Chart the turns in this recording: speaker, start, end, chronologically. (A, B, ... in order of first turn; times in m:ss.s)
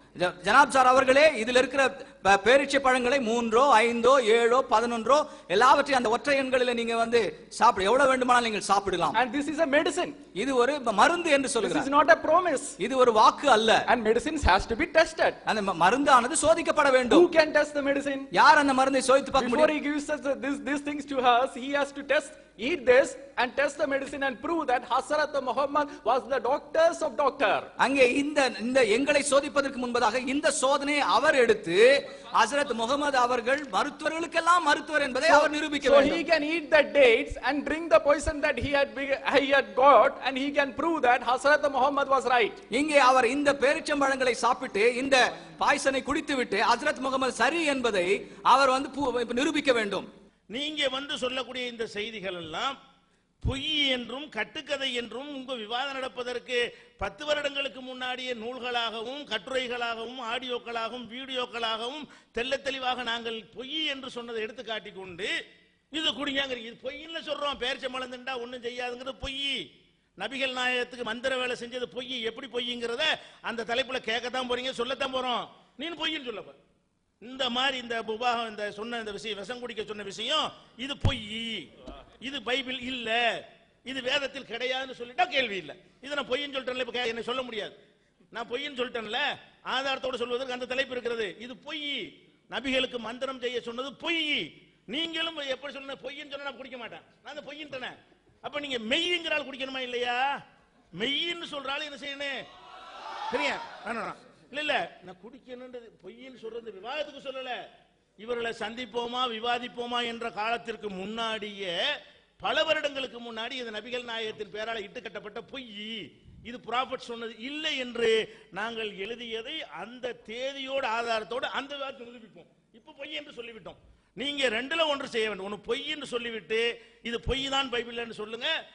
0:00.2-0:09.2 A
0:09.1-0:10.2 B
0:10.3-0:11.9 A
0:11.6-0:12.8 B
0:12.8-0:13.8 A
0:13.9-0:15.4 B
0:15.4-0:17.3 A
0:17.1-0:18.3 B
0:18.3-0:19.7 A
0:19.4-0:27.7 B
0:27.8-0:36.2 A
0:35.3-0:42.6 B
0:42.7-0:50.1 A
0:50.5-0:52.7 C
0:53.4-1:05.3 C
1:05.9-1:09.5 C
1:10.2-1:16.5 C
1:17.2-1:21.7 C
1:22.2-1:23.2 C
1:23.8-1:27.8 C
1:28.3-1:32.0 C
1:32.5-1:40.2 C
1:41.0-1:42.3 C
1:43.3-1:47.5 C
1:48.2-1:51.7 C
1:52.4-2:08.5 C